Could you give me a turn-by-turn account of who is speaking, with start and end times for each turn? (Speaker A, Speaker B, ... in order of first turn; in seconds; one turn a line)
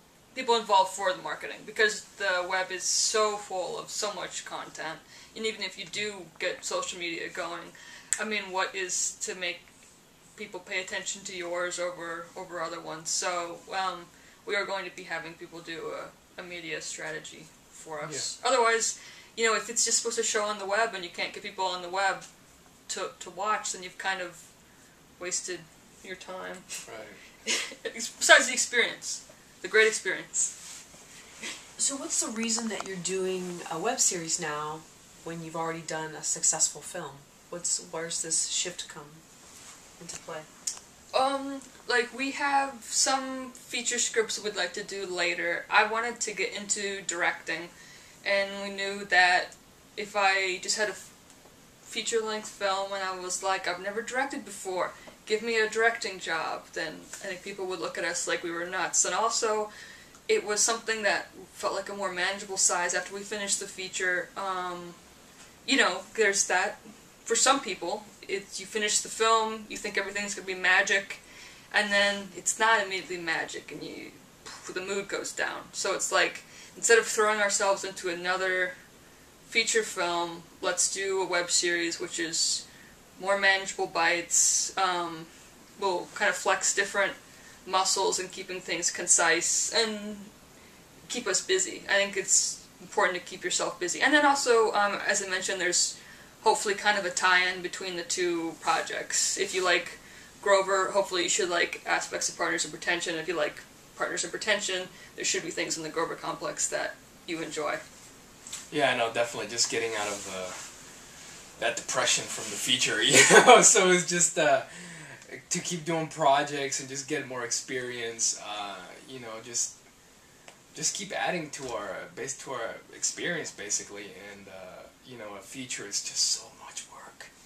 Speaker A: 0.3-9.7
Speaker A: 10.3-22.3
Speaker B: 18.0-18.3
Speaker A: 22.9-24.5
Speaker A: 25.2-26.6
Speaker B: 26.8-27.2
Speaker A: 27.4-30.5
Speaker C: 31.8-39.2
Speaker C: 40.0-40.5
Speaker A: 41.1-47.7
Speaker A: 48.2-51.1
Speaker A: 51.8-59.7
Speaker A: 60.3-65.0
Speaker A: 65.6-78.7
Speaker A: 79.5-82.6
Speaker A: 83.2-90.3
Speaker A: 91.1-107.8
Speaker B: 108.7-110.6
Speaker B: 111.6-119.7
Speaker B: 120.7-127.3